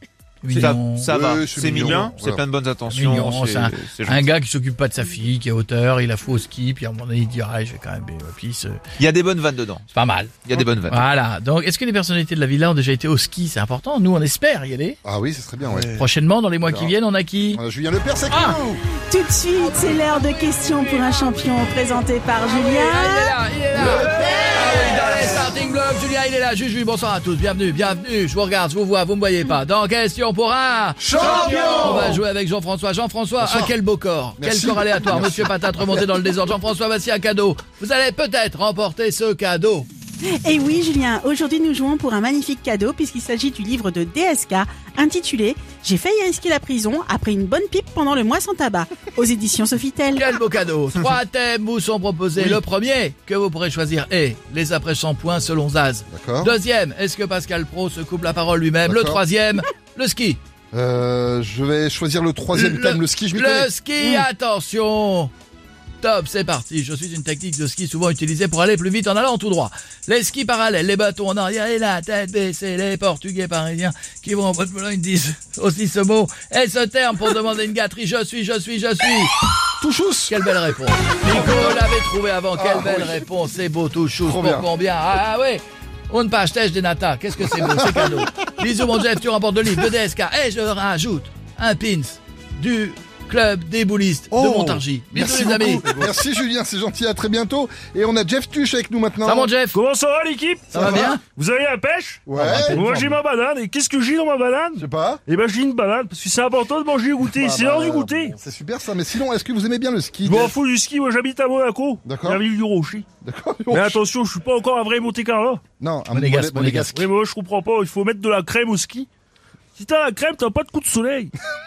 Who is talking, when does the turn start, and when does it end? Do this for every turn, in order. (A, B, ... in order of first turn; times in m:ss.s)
0:00.4-0:01.1 A
0:00.5-0:04.3 B
0:01.0-0:02.4 C
0:02.9-0:08.8 A
0:09.0-0:09.8 B
0:09.9-0:15.0 A
0:10.4-0:11.0 B
0:15.0-0:16.0 C
0:15.8-0:17.6 A
0:16.6-0:16.9 C
0:17.5-0:18.8 C
0:18.3-0:18.6 A
0:19.1-0:23.3 D
0:19.6-0:21.4 A
0:22.4-0:39.9 A
0:31.0-0:32.2 C
0:33.4-0:33.8 C
0:34.4-0:36.0 C
0:40.4-0:50.3 D
0:50.1-1:00.4 A
0:52.3-0:52.6 C
0:56.1-0:56.6 C
0:58.8-0:59.2 C
1:00.7-1:03.7 C
1:02.5-1:05.3 A
1:04.0-1:04.2 D
1:06.0-1:19.3 A
1:19.8-1:20.4 C
1:20.3-1:35.9 A
1:21.2-1:21.8 C
1:22.5-1:23.2 C
1:24.2-1:24.7 C
1:27.6-1:28.2 C
1:34.3-1:39.5 C
1:39.2-1:39.8 A
1:39.7-1:48.4 E
1:40.7-1:41.2 A
1:40.7-1:41.1 C
1:42.3-1:42.9 C
1:42.3-1:43.1 A
1:44.8-1:45.2 C
1:47.3-1:50.5 C
1:50.2-1:53.0 E
1:52.0-1:52.4 C
1:53.2-1:54.0 C
1:53.7-1:55.6 E
1:55.8-1:57.1 C
1:56.1-1:57.0 A
1:56.9-1:59.1 E
1:59.8-2:01.3 E